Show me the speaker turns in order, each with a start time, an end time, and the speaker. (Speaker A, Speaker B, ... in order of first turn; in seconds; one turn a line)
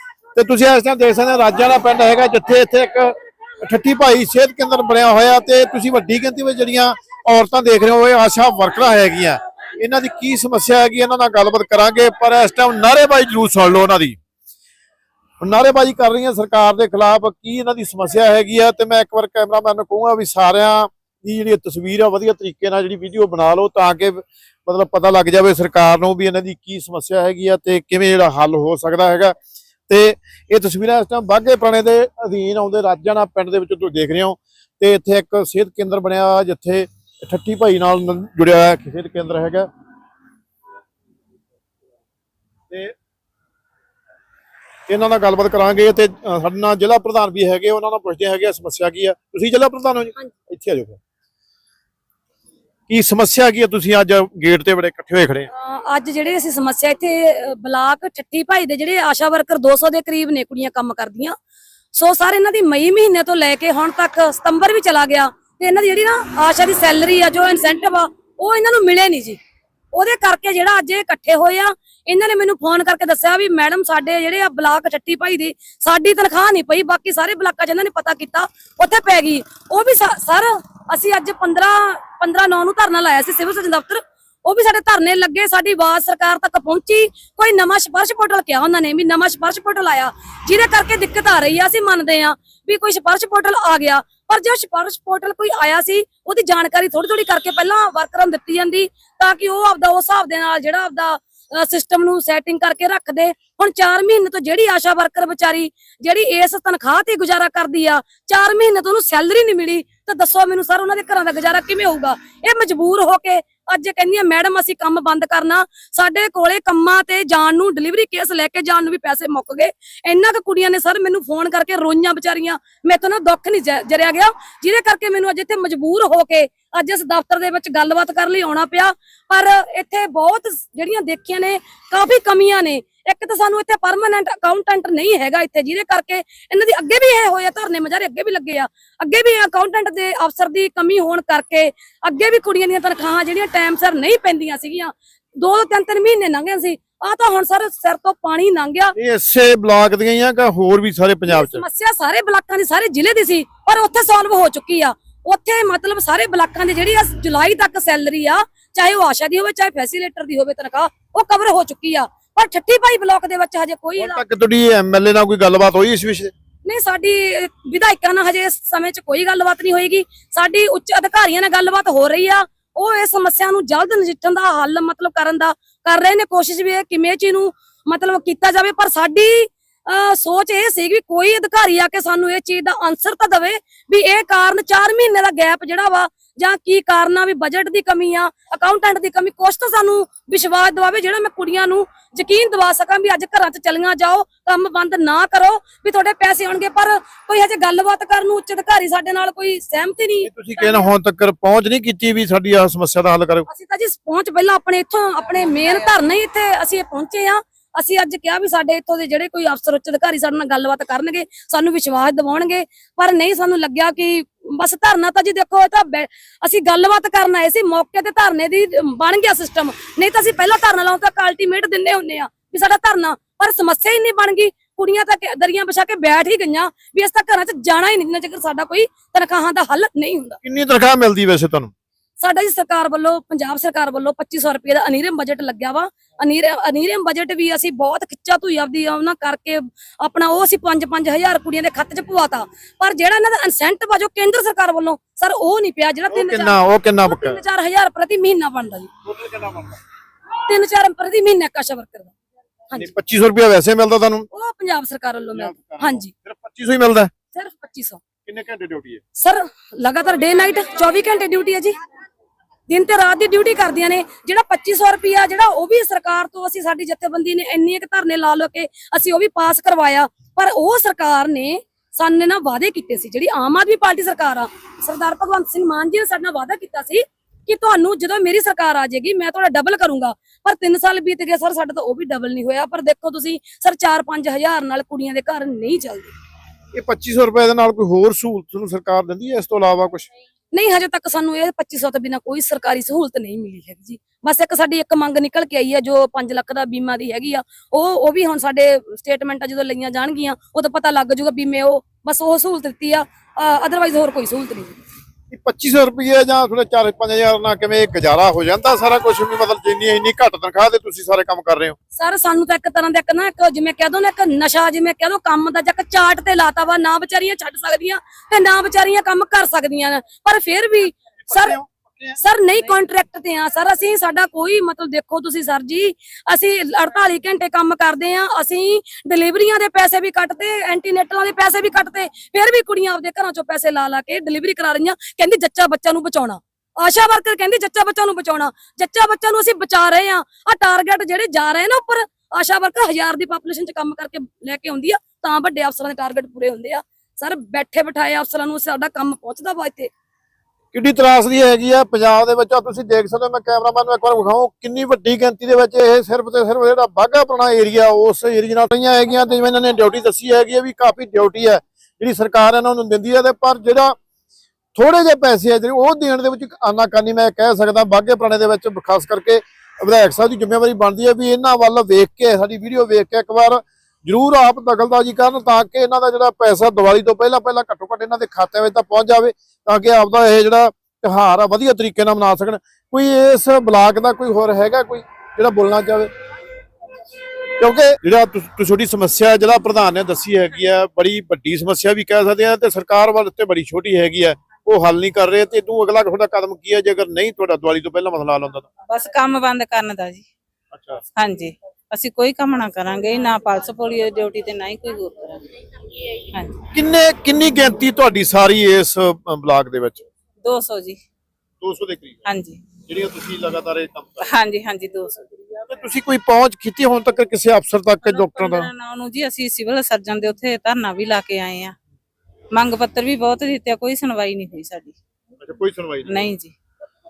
Speaker A: 0.3-14.2
Speaker A: 15.4-29.4
Speaker A: 29.9-39.7
Speaker A: 44.9-51.0
Speaker A: 52.9-55.5
Speaker B: 55.5-61.3
Speaker B: 61.9-69.4
Speaker B: 69.9-148.9
Speaker A: 148.9-151.6
Speaker B: 151.3-164.2
Speaker A: 164.0-166.3
Speaker B: 166.6-200.9
Speaker A: 200.2-203.4
Speaker B: 203.5-230.4
Speaker A: 230.4-231.7
Speaker B: 232.2-248.9
Speaker A: 246.1-247.4
Speaker A: 249.1-249.8
Speaker B: 250.5-252.1
Speaker A: 252.7-254.3
Speaker B: 254.3-256.1
Speaker A: 255.3-257.1
Speaker B: 257.3-258.0
Speaker A: 258.2-259.0
Speaker B: 259.2-261.7
Speaker B: 262.7-286.1
Speaker A: 286.7-290.1
Speaker B: 290.5-304.8
Speaker A: 305.3-311.8
Speaker B: 311.9-321.6
Speaker A: 321.3-322.2
Speaker B: 322.2-349.9
Speaker A: 350.7-363.9
Speaker A: 364.7-386.1
Speaker A: 387.6-398.7
Speaker C: 398.9-400.2
Speaker A: 400.7-401.0
Speaker C: 401.1-405.4
Speaker C: 406.3-406.6
Speaker A: 406.7-410.1
Speaker C: 410.4-411.0
Speaker A: 411.6-412.2
Speaker C: 412.2-412.6
Speaker A: 412.9-414.1
Speaker C: 414.2-415.3
Speaker A: 415.7-418.7
Speaker C: 418.0-421.8
Speaker C: 422.5-425.0
Speaker A: 425.4-426.2
Speaker C: 426.1-426.5